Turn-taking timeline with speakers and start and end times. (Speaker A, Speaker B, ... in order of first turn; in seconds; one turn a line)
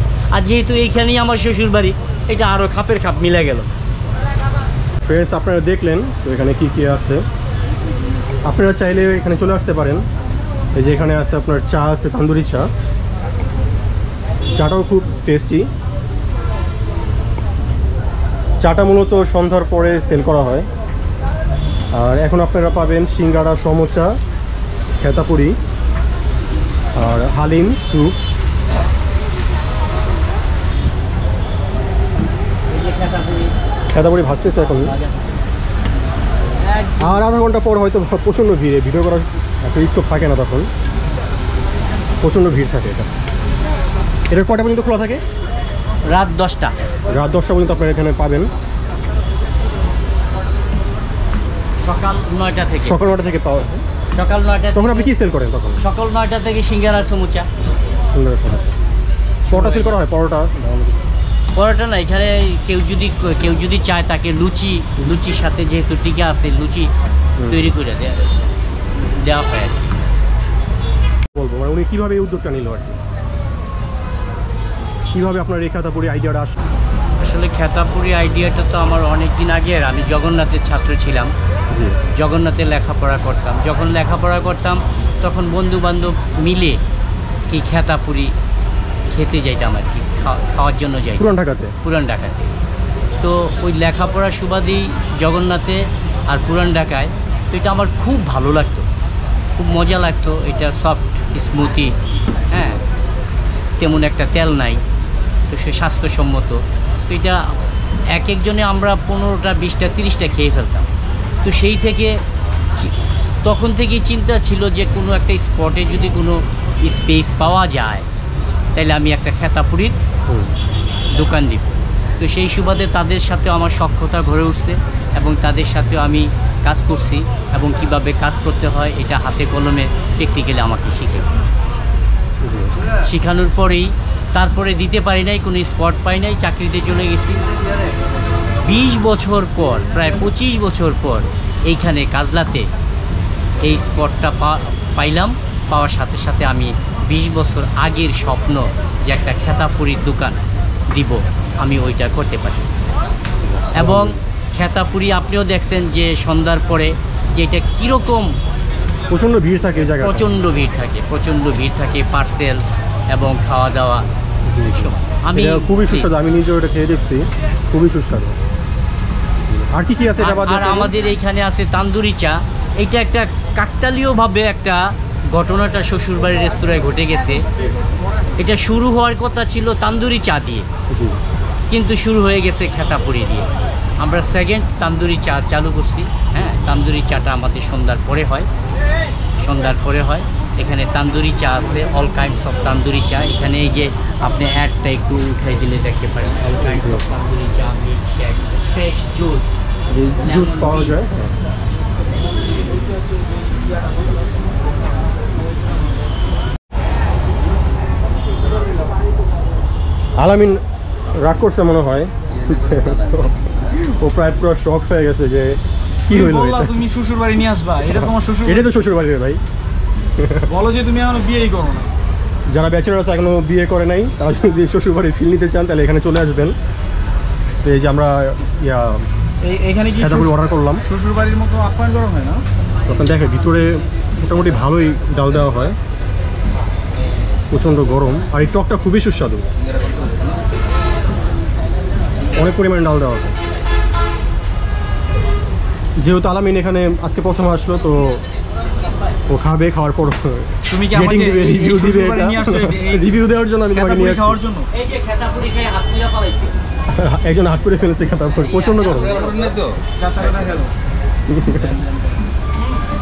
Speaker A: 0.3-3.7
Speaker B: 5.1-7.2
Speaker B: 8.4-10.0
Speaker B: 10.8-12.7
Speaker B: 14.6-15.7
Speaker B: 18.6-20.7
Speaker B: 21.9-24.1
Speaker B: 25.0-25.6
Speaker B: 26.9-28.1
Speaker A: 32.7-33.5
Speaker B: 33.9-34.9
Speaker A: 34.5-35.4
Speaker A: 36.6-37.2
Speaker B: 37.0-40.7
Speaker B: 42.2-43.1
Speaker B: 44.3-45.2
Speaker A: 46.1-46.8
Speaker B: 47.1-48.5
Speaker A: 51.8-53.0
Speaker B: 52.8-53.8
Speaker A: 54.1-55.1
Speaker B: 54.7-55.8
Speaker A: 55.8-57.5
Speaker B: 58.1-58.8
Speaker A: 59.5-60.0
Speaker B: 59.5-61.0
Speaker A: 61.5-66.9
Speaker B: 67.4-67.7
Speaker A: 67.5-68.2
Speaker A: 69.0-69.9
Speaker B: 71.3-73.0
Speaker B: 75.1-76.5
Speaker A: 77.2-81.3
Speaker A: 82.1-86.8
Speaker A: 87.5-88.3
Speaker A: 89.1-91.3
Speaker B: 91.2-91.7
Speaker A: 91.8-92.5
Speaker A: 93.2-98.9
Speaker A: 99.6-101.9
Speaker A: 102.5-102.8
Speaker A: 103.8-104.8
Speaker A: 105.5-107.4
Speaker A: 108.1-110.9
Speaker A: 111.4-112.2
Speaker A: 113.5-118.1
Speaker A: 118.8-120.0
Speaker B: 120.3-120.5
Speaker A: 121.2-131.4
Speaker B: 132.4-132.7
Speaker A: 133.1-137.4
Speaker A: 138.6-142.7
Speaker A: 143.6-150.4
Speaker A: 150.9-152.7
Speaker B: 153.4-154.2
Speaker A: 153.8-158.4
Speaker B: 159.1-160.3
Speaker A: 159.8-162.6
Speaker A: 163.1-164.1
Speaker B: 164.5-168.4
Speaker A: 164.7-166.1
Speaker B: 169.5-170.9
Speaker A: 170.2-177.4
Speaker A: 178.4-180.7
Speaker B: 180.9-181.2
Speaker A: 181.7-183.5
Speaker A: 184.0-188.5
Speaker B: 186.4-186.6
Speaker A: 189.4-199.6
Speaker B: 196.4-197.1
Speaker B: 199.9-201.3
Speaker A: 200.2-201.0
Speaker B: 210.2-210.6
Speaker B: 211.1-216.8
Speaker C: 216.1-218.7
Speaker B: 217.9-219.4
Speaker B: 220.2-220.4
Speaker C: 220.5-221.9
Speaker B: 222.5-226.6
Speaker B: 227.6-229.1
Speaker C: 229.4-232.4
Speaker B: 230.0-230.8
Speaker B: 232.9-235.8
Speaker B: 237.5-239.4
Speaker B: 242.3-243.4
Speaker B: 246.0-248.2
Speaker B: 249.3-254.4
Speaker C: 250.7-253.2
Speaker C: 253.7-254.7
Speaker A: 254.7-256.6
Speaker B: 256.9-259.3
Speaker A: 258.6-259.6
Speaker C: 260.0-260.7
Speaker B: 261.3-261.8